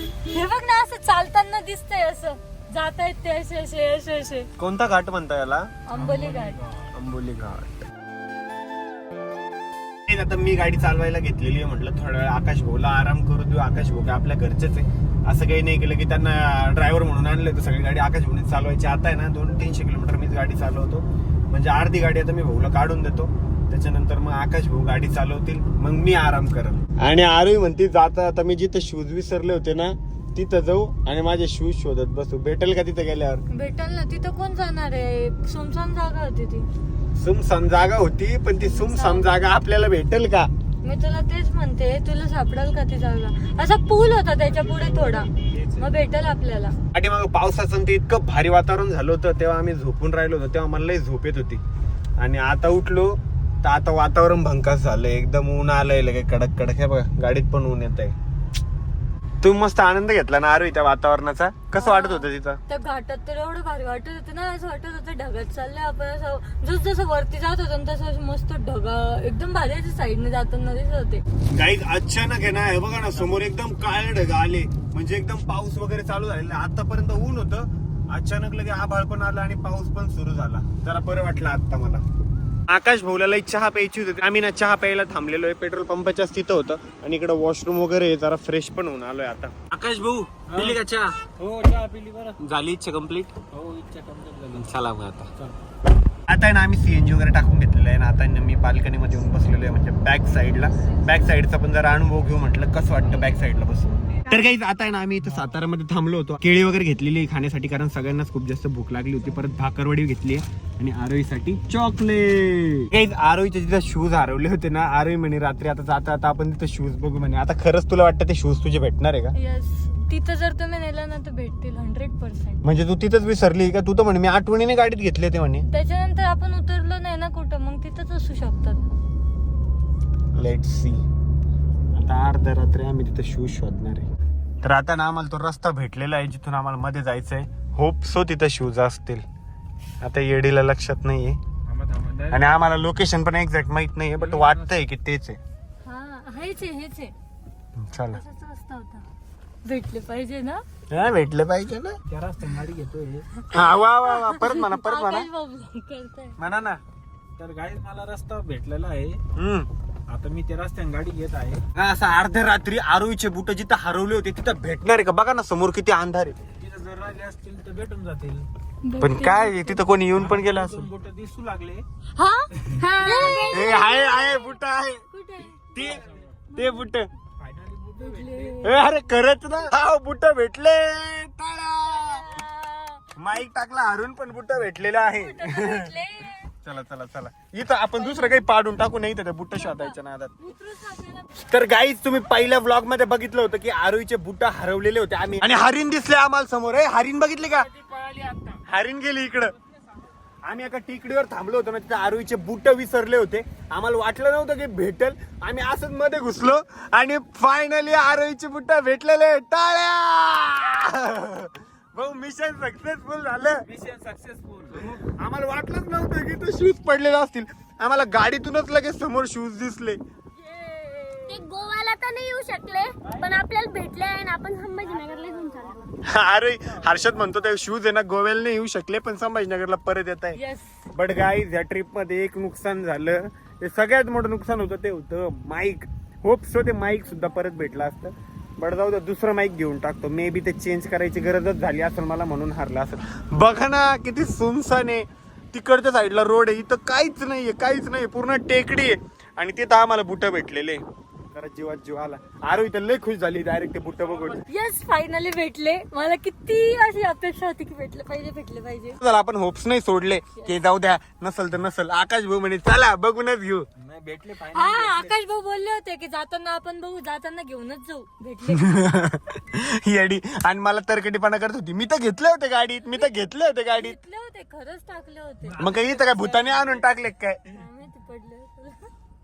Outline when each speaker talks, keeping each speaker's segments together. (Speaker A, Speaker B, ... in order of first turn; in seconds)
Speaker A: 0.3-4.5, 5.9-6.6, 33.5-36.7, 38.6-39.3, 40.8-46.7, 61.7-71.2, 119.3-122.6, 125.7-128.8, 145.8-147.1, 148.1-149.0, 149.6-150.6, 154.0-156.3, 168.8-169.8, 172.2-174.6, 175.1-175.6, 178.0-178.7, 181.9-183.1, 185.1-186.5, 187.9-188.4, 189.5-191.3, 220.4-221.4, 230.3-230.8, 254.4-258.9, 264.5-268.8, 272.9-273.1, 273.7-276.9, 277.5-278.9
Speaker B: 4.6-5.7, 6.9-7.9, 10.1-33.4, 37.2-40.5, 46.9-51.6, 52.2-58.1, 59.4-62.6, 71.5-82.0, 82.7-91.2, 92.4-93.3, 94.5-95.3, 96.3-119.3, 122.6-125.7, 130.3-131.0, 131.9-134.1, 134.6-139.2, 140.0-141.4, 142.3-145.4, 147.8-148.2, 150.9-152.0, 153.5-155.3, 156.4-156.8, 159.3-159.7, 161.7-166.3, 169.0-170.9, 173.5-175.0, 175.6-177.1, 178.6-182.3, 183.2-185.9, 186.6-190.3, 191.4-197.7, 198.5-199.5, 200.4-213.6, 214.8-220.0, 226.0-230.4, 230.9-254.4, 259.0-263.7, 268.5-273.9, 275.6-277.4
Speaker C: 5.9-6.9, 44.5-45.9, 90.5-90.8, 91.3-92.4, 93.5-94.8, 141.7-142.6, 144.2-144.7, 152.1-153.3, 157.4-159.2, 160.1-161.6, 166.6-168.5, 170.1-171.8, 172.6-172.8, 175.8-176.5, 177.4-178.7, 197.8-198.6, 213.7-215.0, 254.1-254.4, 263.8-265.1, 275.4-275.8
Speaker D: 172.8-174.1, 221.3-225.8